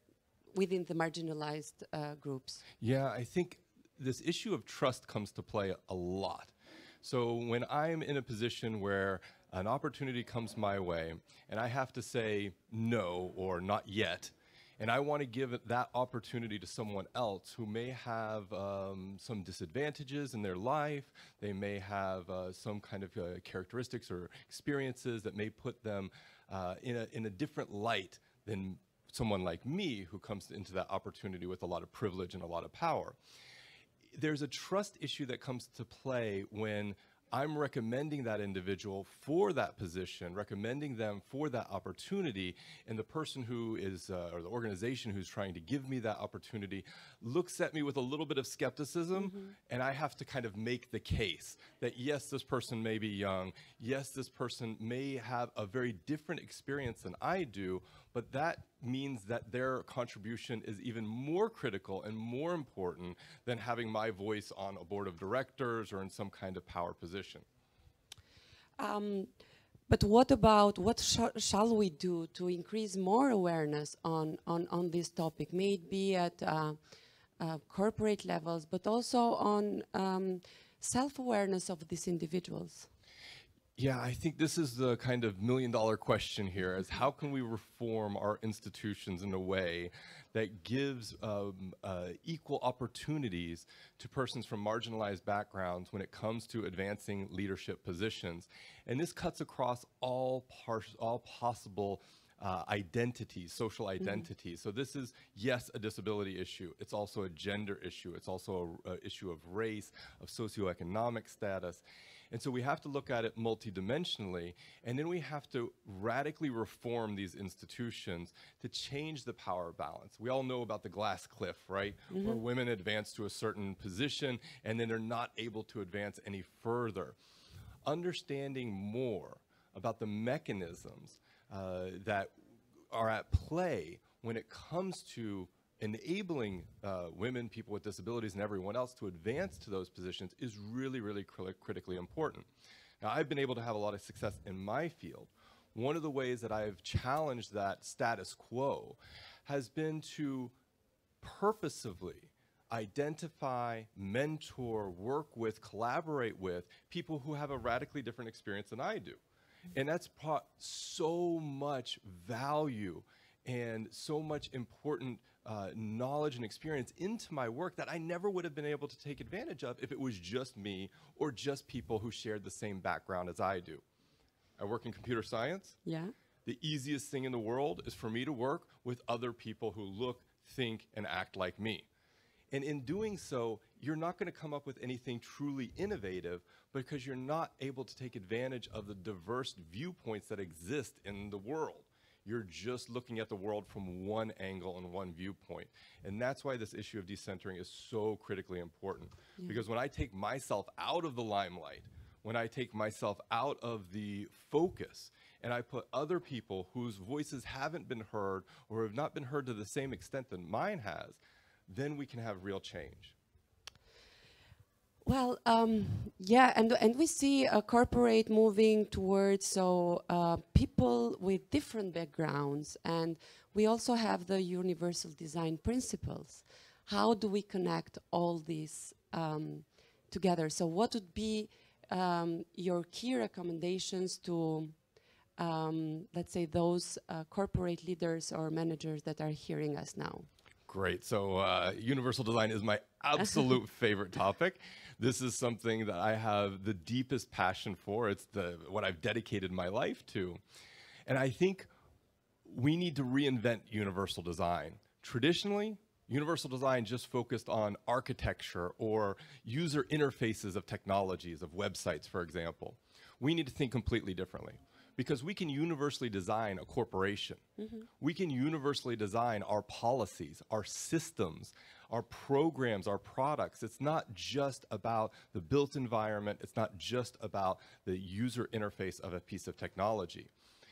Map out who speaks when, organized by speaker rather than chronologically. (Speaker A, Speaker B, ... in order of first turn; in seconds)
Speaker A: 0.5-2.6, 49.2-49.5, 68.8-69.3, 69.9-76.8, 77.4-82.9, 104.0-104.3, 122.1-122.4, 175.8-176.1, 215.0-234.8, 235.4-240.3, 267.6-267.9
Speaker B: 2.8-33.2, 34.1-67.4, 83.8-127.2, 127.8-132.3, 132.9-142.5, 143.0-150.5, 151.2-159.2, 159.7-173.8, 174.6-175.8, 176.4-181.8, 182.5-213.1, 240.7-250.4, 251.1-251.7, 252.4-267.4, 268.0-280.3